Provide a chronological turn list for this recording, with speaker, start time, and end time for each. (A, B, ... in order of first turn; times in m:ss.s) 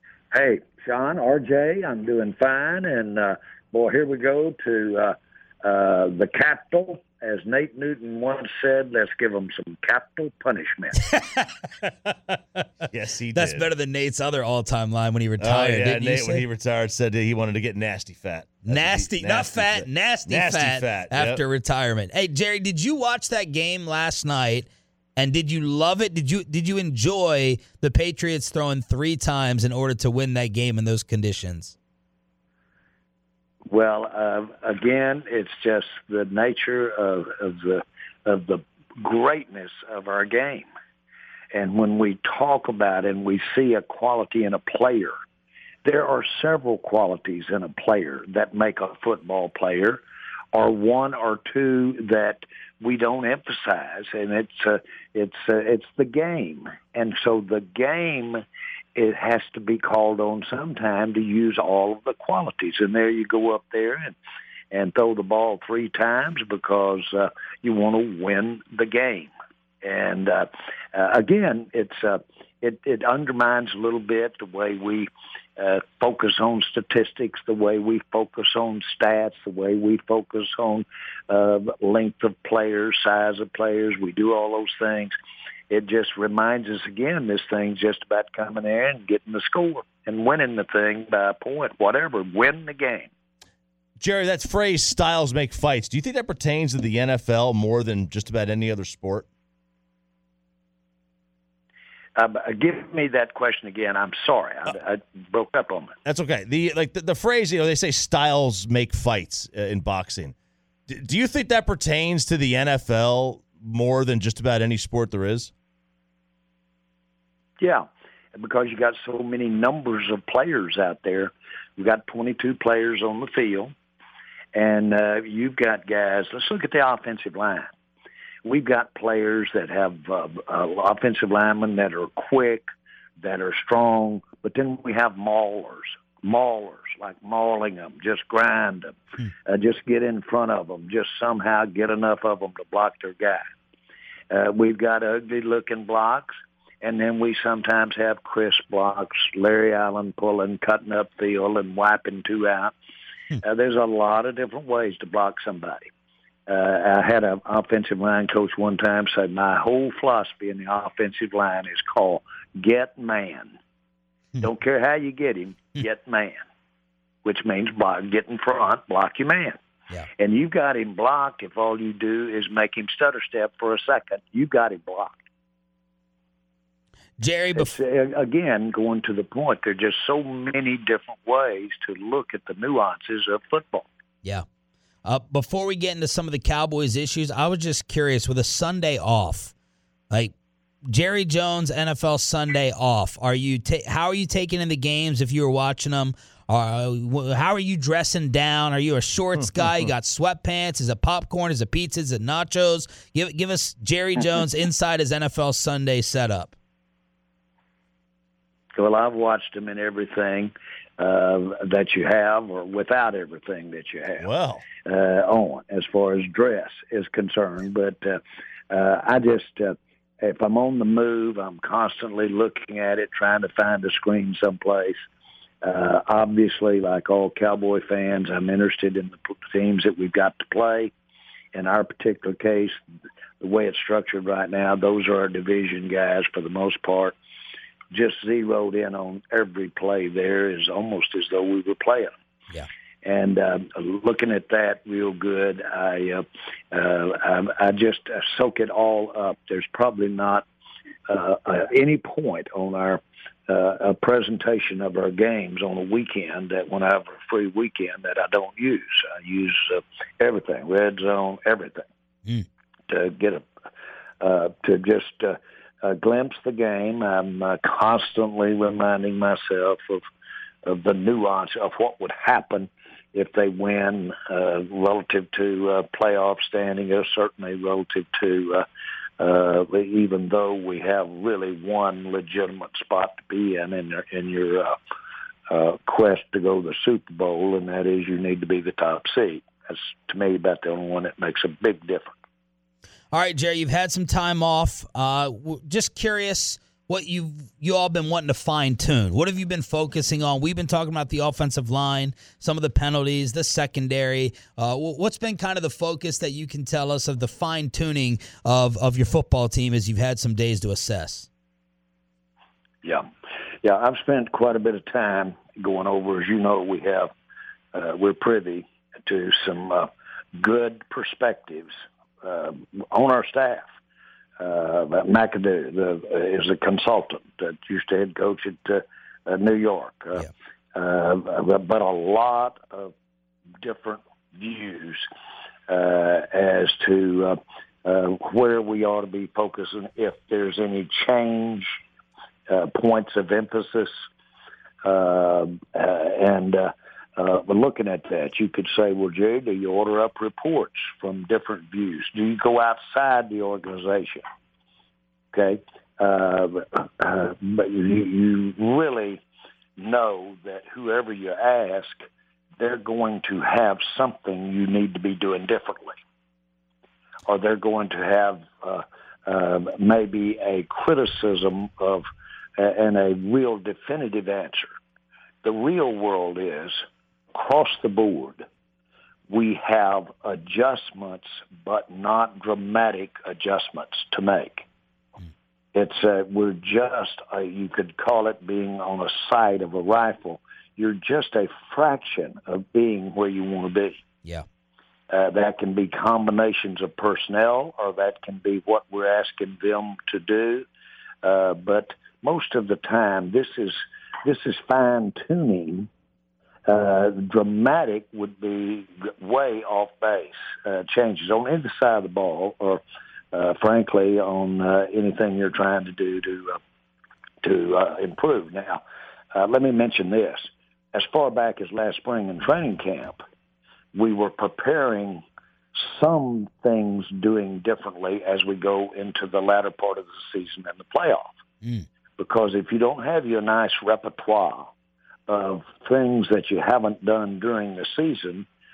0:00.3-0:11.1 A
0:11.1-0:11.5 B
0:12.9-0:13.7 C
0:13.3-0:16.4 B
0:15.4-0:21.4 C
0:18.7-0:31.8 B
0:33.7-0:40.7 A
0:41.5-0:45.1 A
0:45.8-0:50.0 A
0:50.5-0:58.4 A
0:59.0-1:04.2 A
1:04.7-1:09.3 A
1:09.8-1:25.1 A
1:25.7-1:33.1 A
1:34.0-1:39.3 C
1:42.2-1:45.9 A
1:46.0-1:50.4 C
1:50.9-1:55.5 C
1:57.6-1:57.8 A
1:58.4-2:03.7 A
2:04.5-2:07.7 A
2:08.4-2:12.6 A
2:13.2-2:19.0 A
2:19.5-2:23.4 A
2:24.3-2:32.8 A
2:33.4-2:35.9 A
2:36.5-2:43.6 A
2:44.4-2:46.4 A
2:47.2-2:49.6 A
2:50.2-2:55.2 A
2:57.2-2:57.8 B
2:57.6-3:03.9 A
3:05.0-3:09.5 B
3:10.8-3:26.5 B
3:19.6-3:19.8 C
3:28.8-3:34.3 A
3:34.2-3:34.7 C
3:34.8-3:38.2 A
3:38.7-3:45.0 A
3:45.6-3:50.9 A
3:51.5-3:52.7 A
3:53.4-3:57.2 A
3:57.9-4:02.1 A
4:03.0-4:10.5 A
4:11.1-4:21.9 A
4:22.9-4:23.5 A
4:24.2-4:30.0 A
4:30.6-4:38.6 A
4:39.2-4:44.8 A
4:45.5-4:52.2 A
4:53.1-5:11.3 B
5:13.6-5:17.1 A
5:17.7-5:21.7 A
5:22.2-5:23.7 A
5:24.4-5:32.9 A
5:33.6-5:35.0 A
5:35.7-5:41.8 A
5:42.5-5:43.9 A
5:44.8-5:54.2 A
5:55.3-5:59.2 A
5:59.8-6:02.1 A
6:02.6-6:06.0 A
6:07.3-6:12.0 A
6:12.6-6:14.7 A
6:15.4-6:16.8 A
6:17.3-6:18.4 A
6:19.3-6:24.7 A
6:25.8-6:34.0 A
6:35.1-6:40.7 A
6:41.2-6:45.9 A
6:46.7-6:52.8 A
6:53.3-6:56.6 A
6:57.4-6:58.8 A
6:59.3-7:03.2 A
7:04.0-7:11.3 A
7:12.2-7:14.7 A
7:15.3-7:18.5 A